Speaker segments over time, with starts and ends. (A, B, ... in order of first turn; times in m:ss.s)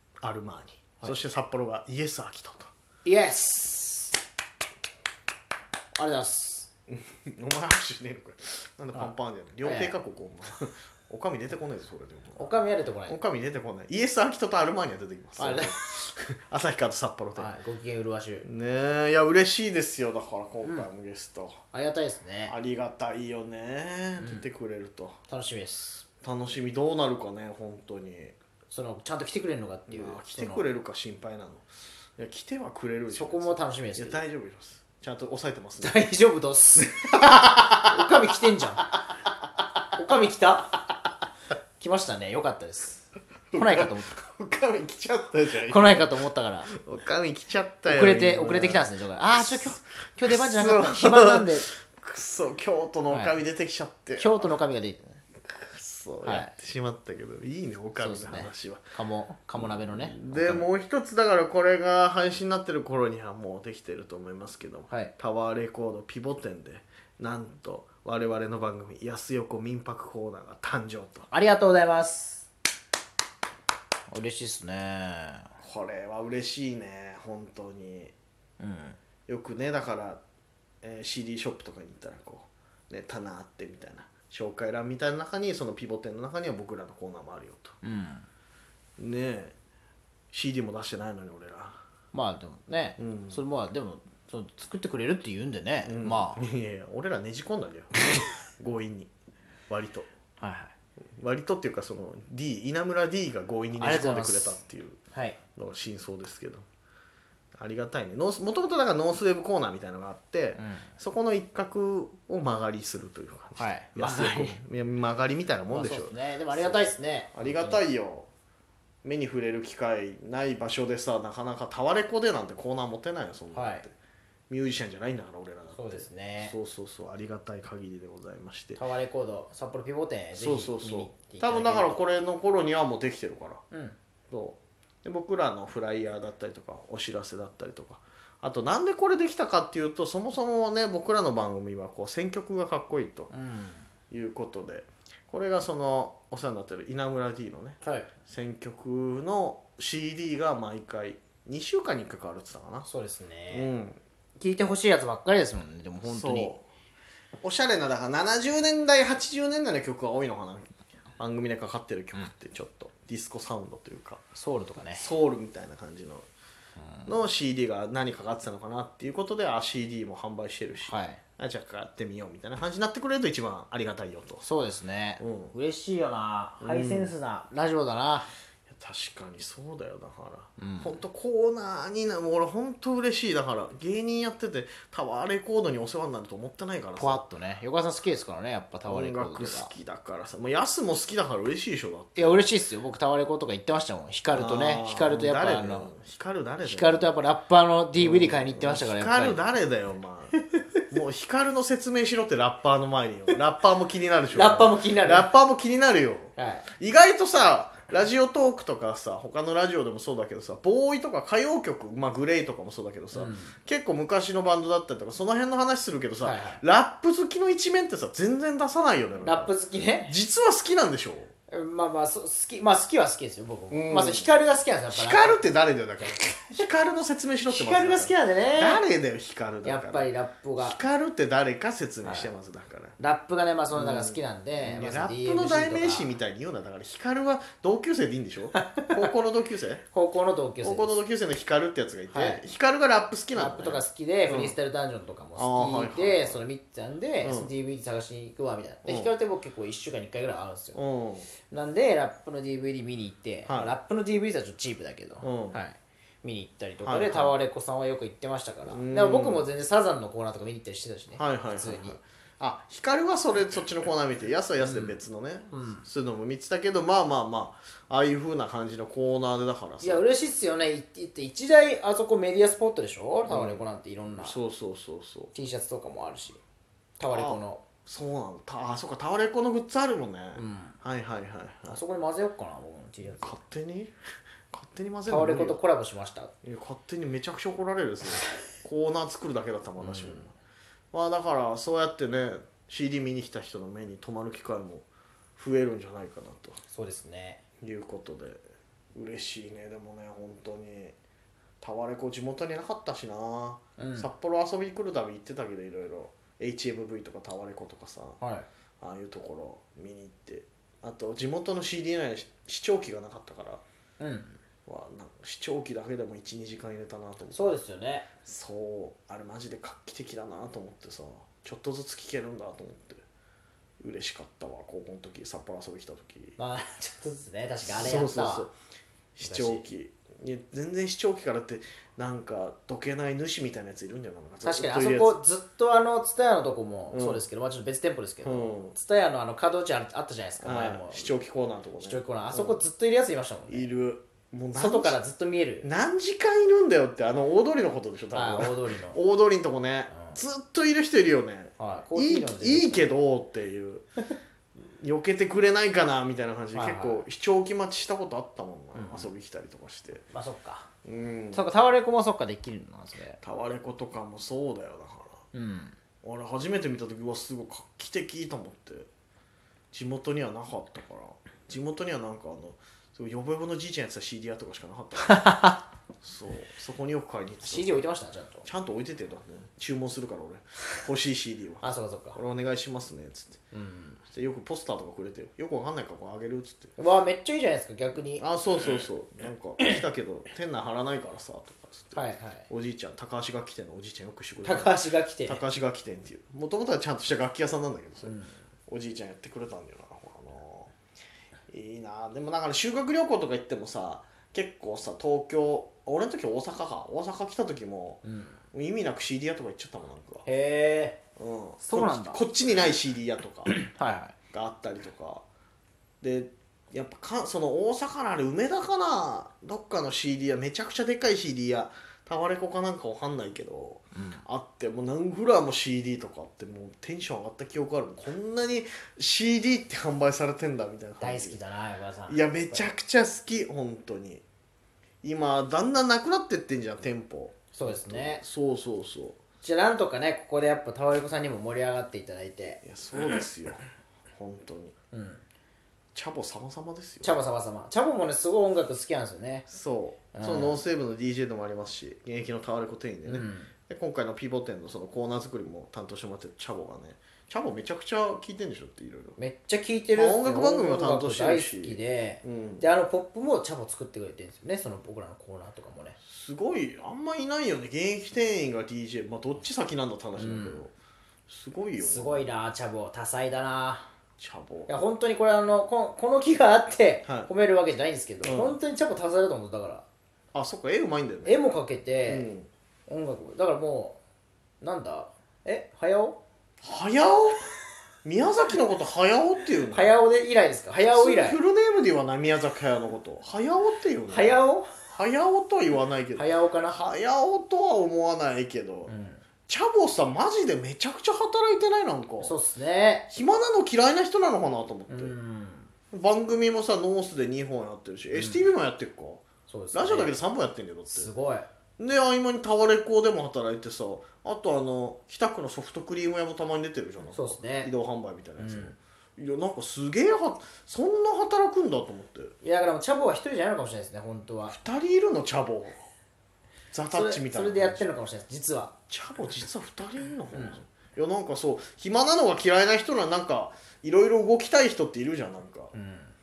0:00.2-0:02.7 A
0:03.0-0:04.2 B
0:05.9-0:06.7 B
0:06.9-0:12.5 A
0:08.9-0:10.0 B
0:12.4-0:13.2 B
0:13.1-0:17.5 A
0:15.4-0:15.7 B
0:17.4-0:18.4 B
0:18.4-0:21.6 A
0:21.7-0:22.6 B
0:22.5-0:25.2 A
0:24.2-0:24.4 B
0:25.3-0:26.0 B
0:26.2-0:28.4 A
0:28.7-0:30.6 B
0:29.8-0:36.0 A
0:33.1-0:34.2 B
0:35.8-0:38.9 B
0:37.1-0:37.9 A
0:40.0-0:40.8 B
0:41.8-0:43.0 B
0:43.5-0:54.4 A
0:43.6-0:44.2 B
0:45.6-0:46.7 B
0:47.8-0:51.7 B
0:53.1-0:53.3 B
0:54.2-0:55.0 B
0:55.5-0:58.9 A
0:56.2-0:56.5 B
0:58.0-1:00.7 B
0:59.6-1:11.3 A
1:11.3-1:12.5 B
1:14.1-1:15.5 B
1:15.6-1:18.1 A
1:18.6-1:19.0 B
1:19.3-1:20.2 A
1:20.8-1:27.8 A
1:27.8-1:28.3 B
1:29.0-1:29.5 A
1:30.3-1:31.8 A
1:32.1-1:36.4 B
1:33.0-1:33.4 A
1:35.8-1:38.0 A
1:38.6-1:39.1 A
1:39.7-1:40.1 A
1:40.4-1:40.7 B
1:41.2-1:45.0 A
1:43.8-1:44.6 B
1:45.1-1:45.4 B
1:45.6-1:46.6 A
1:47.5-1:58.3 A
1:50.5-1:50.9 B
1:53.6-1:54.6 B
1:55.7-1:57.8 B
1:59.0-2:03.9 A
2:03.5-2:03.8 B
2:04.5-2:08.8 A
2:05.7-2:06.6 B
2:08.8-2:12.0 B
2:10.4-2:13.6 A
2:13.7-2:14.0 B
2:14.3-2:23.3 A
2:23.3-2:23.9 B
2:24.1-2:32.9 A
2:27.8-2:28.1 B
2:32.8-2:33.7 B
2:33.5-2:34.0 A
2:34.4-2:36.5 B
2:36.0-2:36.6 A
2:37.4-2:44.2 A
2:44.3-2:45.1 B
2:44.9-2:46.3 A
2:46.8-2:47.1 B
2:47.0-2:54.4 A
2:50.8-2:51.2 B
2:54.4-2:58.3 B
2:55.2-2:55.5 A
2:56.6-2:57.1 A
2:58.7-3:07.2 A
3:00.6-3:00.9 B
3:07.0-3:09.7 B
3:08.8-3:12.4 A
3:12.2-3:15.9 B
3:14.3-3:17.1 A
3:16.6-3:19.4 B
3:18.0-3:20.4 A
3:20.9-3:39.5 A
3:24.3-3:25.3 B
3:26.4-3:26.7 B
3:33.1-3:33.6 B
3:36.2-3:36.6 B
3:39.2-3:40.1 B
3:40.1-3:41.3 A
3:41.5-3:45.4 B
3:43.7-3:44.3 A
3:44.9-3:53.0 A
3:47.5-3:48.8 B
3:49.6-3:50.8 B
3:52.0-3:52.3 B
3:53.0-3:56.1 B
3:53.7-3:59.8 A
3:58.5-3:59.1 B
3:59.9-4:01.0 B
4:00.6-4:04.5 A
4:02.1-4:02.4 B
4:03.3-4:10.8 B
4:05.4-4:06.4 A
4:07.2-4:07.5 A
4:08.8-4:09.1 A
4:10.7-4:11.3 A
4:11.5-4:22.0 B
4:13.5-4:13.7 A
4:15.2-4:15.6 A
4:16.8-4:17.3 A
4:18.7-4:19.5 A
4:21.2-4:30.0 A
4:24.6-4:25.0 B
4:25.5-4:25.8 B
4:29.8-4:34.4 B
4:33.3-4:35.3 A
4:35.3-4:36.4 B
4:37.0-4:37.6 B
4:37.1-4:41.8 A
4:40.3-4:40.8 B
4:41.7-4:43.4 B
4:43.1-4:43.9 A
4:44.5-4:45.6 A
4:45.1-4:46.3 B
4:46.4-4:50.3 A
4:49.8-4:50.3 B
4:50.9-4:54.8 A
4:55.4-4:56.6 A
4:56.7-4:57.4 B
4:57.6-4:58.4 A
4:58.9-5:01.0 A
5:01.6-5:08.2 A
5:03.8-5:04.1 B
5:08.2-5:08.5 B
5:08.8-5:13.6 A
5:14.0-5:14.4 B
5:14.6-5:17.5 A
5:17.3-5:18.1 B
5:18.2-5:23.0 A
5:23.8-5:26.4 A
5:26.4-5:28.5 B
5:27.6-5:28.5 A
5:29.2-5:35.2 A
5:29.2-5:29.6 B
5:34.4-5:41.1 B
5:36.9-5:37.2 A
5:38.2-5:38.7 A
5:40.4-5:42.6 A
5:41.8-5:43.7 B
5:43.5-5:45.0 A
5:44.5-5:45.7 B
5:45.6-5:53.8 A
5:48.1-5:49.0 B
5:49.9-5:50.2 B
5:51.6-5:52.9 B
5:54.6-6:00.0 A
5:56.5-5:57.0 B
5:58.7-5:59.1 B
6:00.1-6:00.7 B
6:00.8-6:01.4 A
6:01.3-6:03.2 B
6:03.2-6:05.2 A
6:05.3-6:05.8 B
6:06.0-6:08.9 A
6:09.7-6:15.3 A
6:15.1-6:15.6 B
6:16.0-6:17.8 A
6:17.4-6:18.5 B
6:18.4-6:23.4 A
6:21.6-6:22.2 B
6:23.5-6:24.0 B
6:24.1-6:26.7 A
6:26.8-6:28.2 B
6:28.2-6:40.7 A
6:31.9-6:32.5 B
6:34.4-6:35.4 B
6:38.0-6:38.4 B
6:41.5-6:50.2 A
6:48.0-6:48.4 B
6:50.2-6:51.0 B
6:51.2-6:53.5 A
6:51.6-6:52.2 B
6:53.4-6:54.1 B
6:54.3-6:55.2 A
6:56.0-7:11.4 A
7:03.9-7:04.2 B
7:11.0-7:12.7 B
7:12.1-7:14.2 A
7:15.0-7:19.2 A
7:17.5-7:18.2 B
7:19.4-7:22.6 B
7:22.6-7:24.7 A
7:24.9-7:25.2 B
7:25.9-7:27.2 A
7:27.0-7:29.5 B
7:29.5-7:39.2 A
7:30.1-7:30.6 B
7:33.0-7:33.5 B
7:39.2-7:46.0 B
7:39.9-7:42.6 A
7:46.0-7:50.7 A
7:50.1-7:50.7 B
7:51.3-7:52.3 A
7:51.8-7:53.9 B
7:54.2-7:54.7 A
7:54.7-7:59.8 B
7:58.2-7:58.6 A
8:00.3-8:01.4 A
8:01.2-8:02.3 B
8:02.0-8:02.5 A
8:02.9-8:04.0 B
8:04.6-8:06.2 B
8:06.6-8:07.5 A
8:08.0-8:10.0 A
8:09.7-8:11.4 B
8:10.8-8:18.9 A
8:14.1-8:14.7 B
8:16.1-8:16.8 B
8:18.9-8:19.2 B
8:19.5-8:22.3 A
8:22.2-8:23.1 B
8:23.1-8:25.1 A
8:24.9-8:25.7 B
8:25.9-8:31.1 A
8:28.1-8:28.4 B
8:29.5-8:30.1 B
8:30.9-8:31.5 B
8:31.8-8:42.3 A
8:37.1-8:37.7 B
8:38.4-8:38.7 B
8:42.4-8:44.6 B
8:44.5-8:45.8 A
8:46.7-8:47.9 A
8:46.9-8:48.7 B
8:48.9-8:55.7 A
8:50.3-8:50.6 B
8:55.7-8:56.1 B